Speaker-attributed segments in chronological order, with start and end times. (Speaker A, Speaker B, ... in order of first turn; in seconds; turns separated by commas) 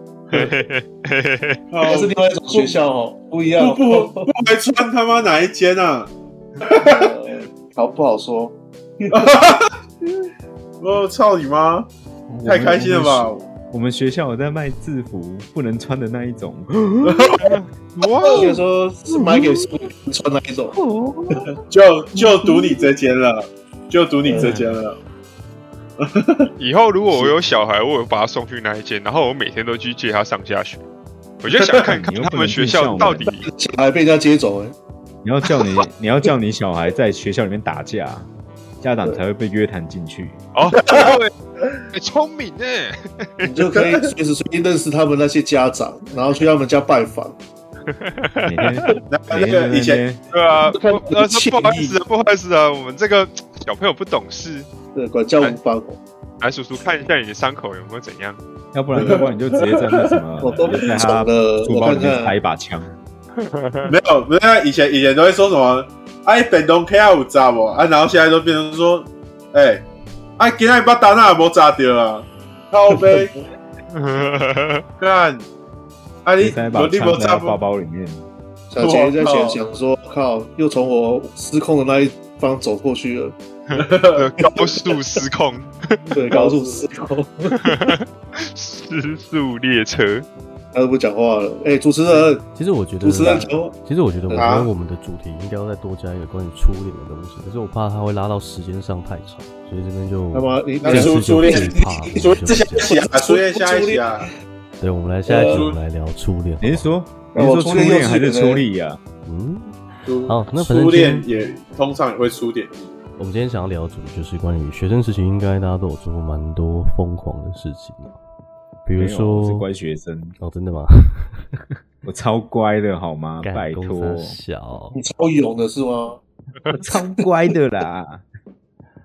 Speaker A: 0.3-1.6, Speaker B: 1.7-2.8, Speaker C: 1.8-4.3, Speaker B: 3.6-7.1, Speaker C: 6.6-9.3, Speaker B: 9.1-10.2, Speaker B: 10.8-11.9, Speaker D: 12.3-17.5, Speaker B: 12.4-13.4, Speaker B: 17.0-17.6, Speaker A: 17.4-18.6, Speaker C: 18.3-20.8, Speaker D: 19.1-19.7, Speaker D: 20.7-21.5, Speaker B: 21.7-24.9, Speaker D: 22.1-22.6, Speaker C: 24.2-24.7, Speaker D: 24.3-24.7, Speaker B: 26.0-26.5, Speaker A: 26.6-30.8, Speaker A: 31.4-33.5, Speaker D: 31.8-33.3, Speaker C: 33.4-34.7, Speaker D: 35.2-38.3, Speaker D: 38.8-40.4, Speaker A: 40.5-41.3, Speaker B: 40.8-41.2, Speaker A: 41.9-43.5, Speaker C: 43.4-47.3, Speaker B: 43.7-44.1, Speaker A: 47.9-48.9, Speaker D: 48.4-50.2, Speaker B: 49.1-50.0, Speaker A: 50.3-54.7, Speaker C: 50.6-52.0, Speaker C: 54.9-56.0, Speaker A: 56.4-58.4, Speaker D: 58.7-63.0, Speaker B: 59.0-60.2, Speaker C: 59.0-59.2, Speaker C: 60.4-62.3, Speaker A: 63.4-63.9, Speaker B: 63.8-69.8, Speaker B: 70.4-73.3, Speaker C: 72.9-73.3, Speaker A: 73.9-74.8, Speaker B: 75.0-75.4, Speaker B: 76.2-77.6, Speaker D: 76.4-78.3, Speaker C: 78.7-83.3, Speaker B: 78.8-79.6, Speaker A: 83.7-86.3, Speaker B: 83.7-84.7, Speaker C: 86.1-87.8, Speaker B: 86.3-86.8, Speaker A: 87.6-90.2, Speaker C: 90.7-92.4, Speaker E: 92.4-103.0, Speaker C: 93.0-93.7, Speaker B: 94.3-94.7, Speaker C: 100.3-104.3, Speaker B: 100.8-104.3, Speaker E: 104.8-106.9, Speaker C: 105.2-105.7, Speaker B: 105.4-105.8, Speaker D: 106.6-109.0, Speaker C: 107.3-108.6, Speaker E: 109.2-111.3, Speaker B: 110.0-112.9, Speaker E: 113.2-118.2, Speaker E: 118.8-119.7, Speaker D: 119.0-120.3, Speaker E: 120.4-121.6, Speaker D: 122.0-124.4, Speaker E: 123.4-125.0, Speaker C: 124.9-126.2, Speaker D: 126.7-128.2